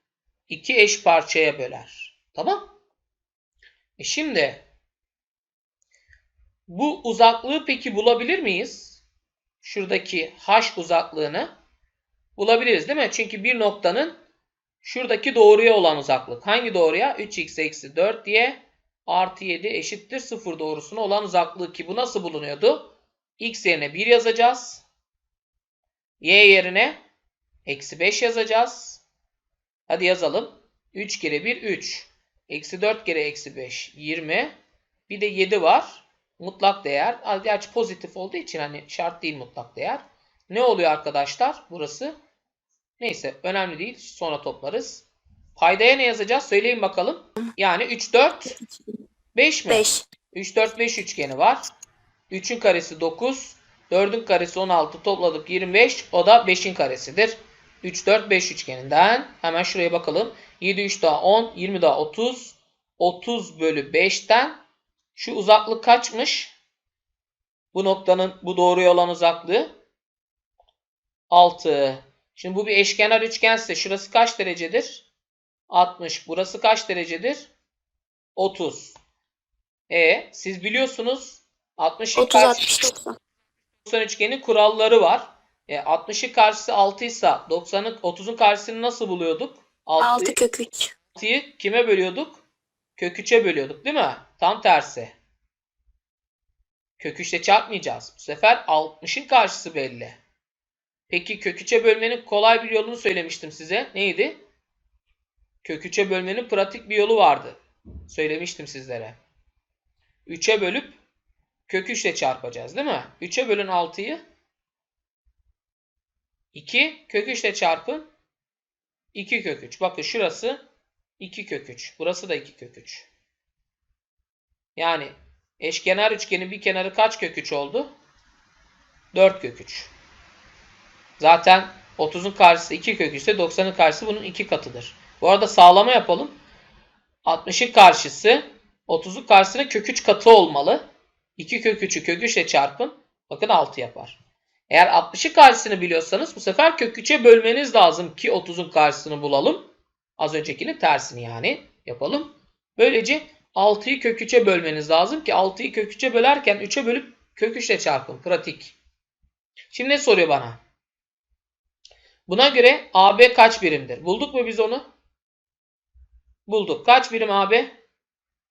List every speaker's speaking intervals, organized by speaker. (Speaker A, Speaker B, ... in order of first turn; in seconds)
Speaker A: 0.5-2.6, 4.0-4.6, 6.7-9.0, 9.6-11.5, 12.4-14.2, 14.8-24.8, 26.2-27.0, 27.7-29.0, 29.9-34.5, 35.1-42.1, 43.0-48.6, 49.4-51.6, 52.3-64.6, 65.2-66.5, 67.7-69.8, 71.3-75.1, 75.7-77.5, 78.4-79.0, 79.9-82.7, 83.8-90.4, 91.2-92.4, 93.0-95.1, 97.0-100.2, 101.1-104.4, 105.6-109.2, 110.3-111.0, 111.7-114.2, 116.5-118.1, 119.1-120.6, 121.2-123.1, 124.8-127.9, 129.1-129.9, 131.2-136.4, 137.2-144.2, 144.7-149.7, 150.2-158.8, 159.7-160.6, 162.3-164.8, 166.5-167.7
Speaker B: 49.7-50.1, 82.2-83.1, 90.0-90.9